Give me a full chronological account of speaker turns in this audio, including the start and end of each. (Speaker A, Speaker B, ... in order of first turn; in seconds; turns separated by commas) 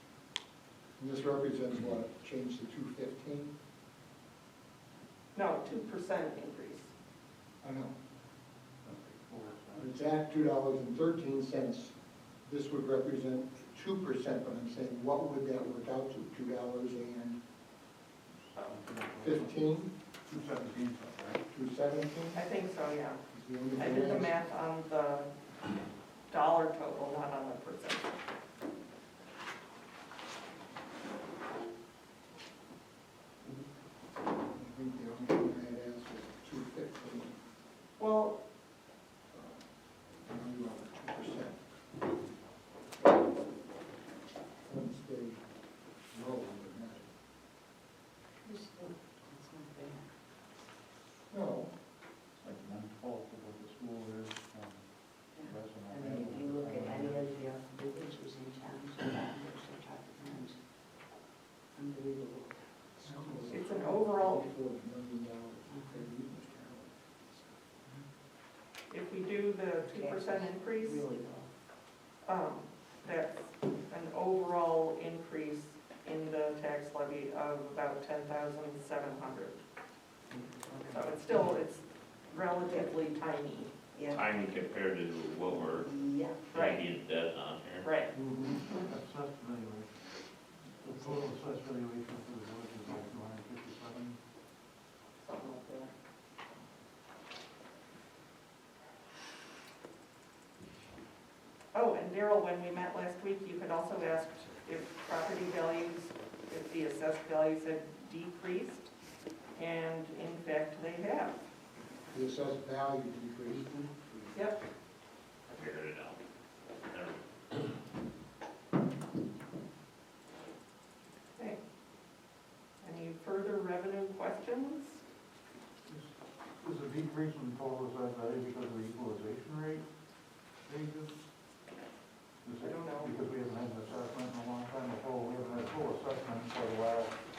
Speaker A: 1.0-3.5, Speaker B: 5.3-6.9, Speaker A: 7.6-7.9, Speaker C: 8.8-10.0, Speaker A: 9.7-17.4, Speaker C: 18.5-19.7, Speaker A: 19.2-19.9, Speaker C: 20.3-21.4, Speaker A: 21.5-22.4, Speaker B: 22.3-23.2, Speaker A: 23.3-24.4, Speaker B: 23.8-25.3, Speaker B: 26.3-28.2, Speaker A: 34.5-37.4, Speaker B: 38.0-38.4, Speaker A: 39.3-39.6, Speaker A: 40.2-41.6, Speaker A: 44.7-45.4, Speaker A: 46.1-47.1, Speaker D: 48.4-50.1, Speaker A: 51.3-51.7, Speaker C: 52.4-57.3, Speaker D: 55.4-60.6, Speaker D: 61.8-62.6, Speaker A: 63.0-67.5, Speaker B: 63.5-64.5, Speaker B: 68.9-71.0, Speaker D: 69.8-71.5, Speaker B: 72.3-79.6, Speaker D: 80.3-81.1, Speaker B: 80.9-83.7, Speaker D: 83.9-84.2, Speaker E: 84.1-85.9, Speaker D: 85.6-86.5, Speaker E: 86.5-87.9, Speaker B: 86.5-86.8, Speaker B: 87.8-88.1, Speaker A: 88.2-88.5, Speaker C: 88.4-89.9, Speaker C: 90.8-94.2, Speaker D: 90.9-91.3, Speaker B: 95.2-95.9, Speaker B: 101.7-108.9, Speaker B: 109.6-111.5, Speaker A: 112.1-114.4, Speaker B: 114.3-114.6, Speaker E: 115.5-116.2, Speaker E: 116.9-117.6, Speaker B: 122.8-125.0, Speaker C: 125.9-129.8, Speaker C: 130.7-131.1, Speaker C: 132.4-137.2, Speaker B: 132.6-133.2